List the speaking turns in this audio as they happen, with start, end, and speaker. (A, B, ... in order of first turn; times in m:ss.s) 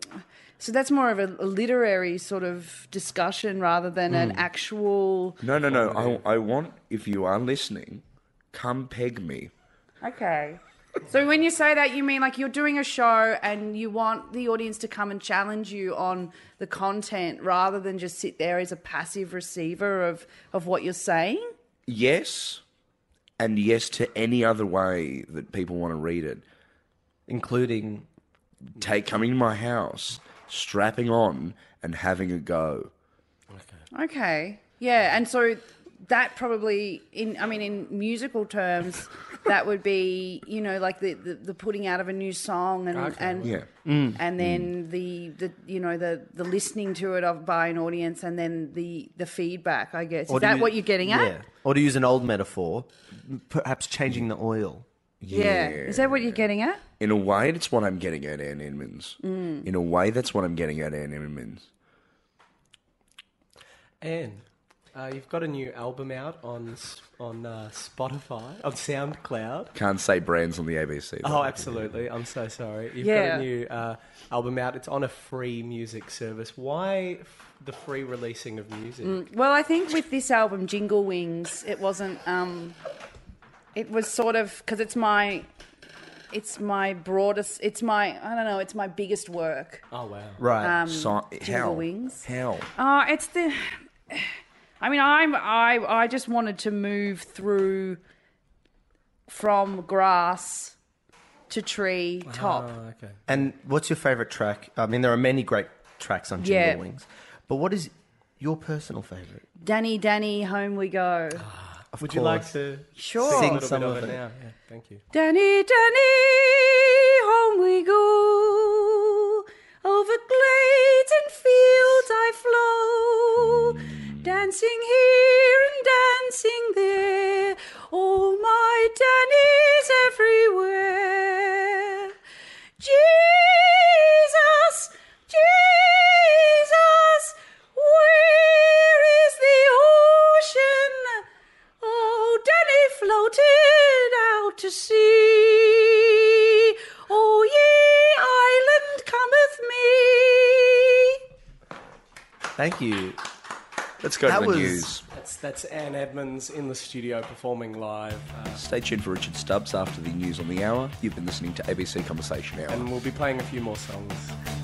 0:00.6-0:05.4 A
0:04.1-0:04.4 B
0:05.4-0:09.5 C
0:10.0-0:21.5 A
0:21.9-0:22.6 C
0:23.4-0:26.4 C
0:27.3-0:28.1 B
0:28.8-0:32.9 C
0:33.5-0:33.8 D
0:33.9-0:43.6 A
0:42.9-0:43.5 D
0:43.8-0:44.2 B
0:44.2-0:51.4 A
0:44.4-0:44.7 C
0:50.3-0:54.8 B
0:55.2-0:56.4 C
0:55.3-0:56.8 A
0:57.0-1:01.7 C
0:59.2-0:59.6 A
1:04.0-1:09.7 D
1:09.7-1:12.0 C
1:11.2-1:19.2 D
1:13.0-1:13.5 A
1:19.0-1:22.8 A
1:23.7-1:25.4 A
1:26.3-1:29.8 A
1:29.9-1:30.4 D
1:30.4-1:30.8 B
1:30.6-1:38.0 A
1:30.8-1:32.7 C
1:39.3-1:40.7 A
1:41.5-1:42.7 A
1:42.2-1:43.4 D
1:43.3-1:49.4 B
1:46.4-1:46.8 A
1:49.6-1:51.5 A
1:51.4-1:55.0 D
1:51.9-1:52.5 B
1:53.0-1:53.6 A
1:53.2-1:54.2 B
1:55.1-2:12.1 A
2:12.8-2:21.2 A
2:21.8-2:31.2 A
2:32.6-2:33.2 B
2:34.0-2:35.0 C
2:34.2-2:34.9 B
2:35.1-2:38.6 D
2:38.6-2:42.9 C
2:42.7-2:44.3 D